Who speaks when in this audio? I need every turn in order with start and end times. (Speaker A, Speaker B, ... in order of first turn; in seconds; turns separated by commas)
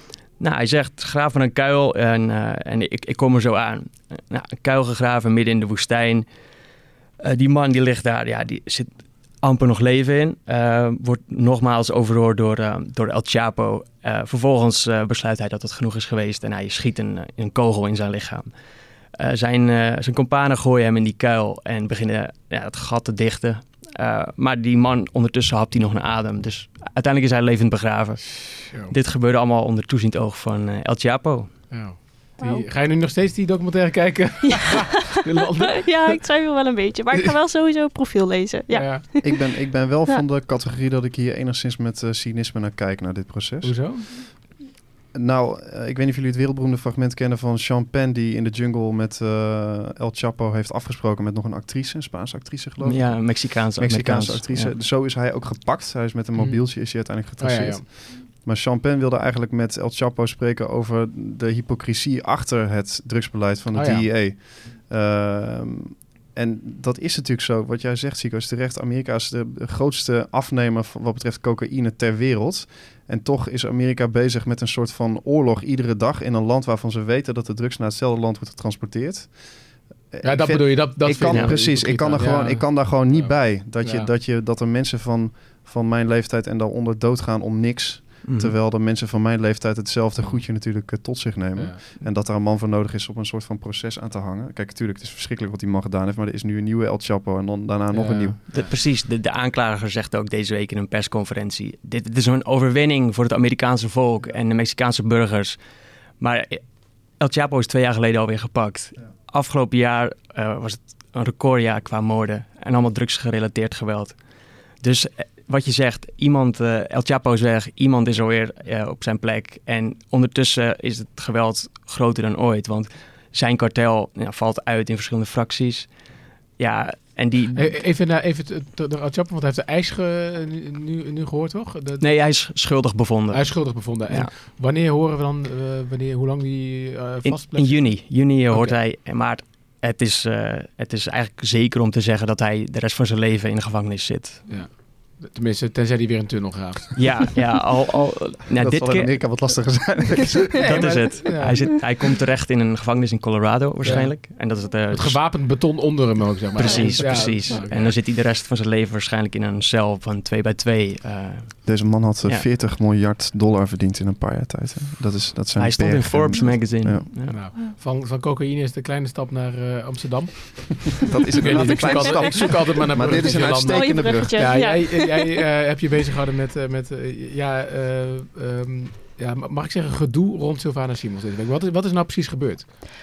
Speaker A: 0.4-6.3, Speaker A: 7.2-8.9, Speaker A: 9.4-18.5, Speaker A: 19.2-31.6, Speaker B: 28.6-28.9, Speaker B: 31.7-36.2, Speaker C: 32.4-32.6, Speaker C: 34.6-34.9, Speaker C: 35.8-39.5, Speaker B: 38.7-39.0, Speaker D: 39.2-44.4, Speaker B: 43.6-44.1, Speaker D: 45.1-98.5, Speaker A: 52.8-54.8, Speaker B: 56.4-56.7, Speaker B: 57.4-57.9, Speaker B: 63.7-64.1, Speaker B: 80.2-84.1, Speaker A: 81.3-81.5, Speaker A: 88.2-88.5, Speaker B: 91.6-92.1, Speaker B: 97.9-98.7, Speaker A: 98.5-105.6, Speaker A: 106.2-106.6, Speaker A: 107.2-114.2, Speaker A: 114.8-125.9, Speaker A: 126.6-127.7, Speaker B: 127.6-132.0, Speaker A: 132.0-134.3, Speaker B: 133.3-138.8, Speaker A: 137.2-144.5, Speaker B: 144.5-147.1, Speaker A: 147.0-149.1, Speaker D: 148.6-150.8, Speaker B: 150.6-151.8, Speaker A: 150.6-155.3, Speaker B: 153.8-158.0, Speaker A: 156.6-162.4, Speaker C: 156.6-157.7, Speaker D: 161.6-167.1, Speaker A: 165.6-167.4, Speaker B: 167.3-182.7, Speaker D: 171.0-174.4, Speaker C: 171.6-172.0, Speaker C: 173.1-175.2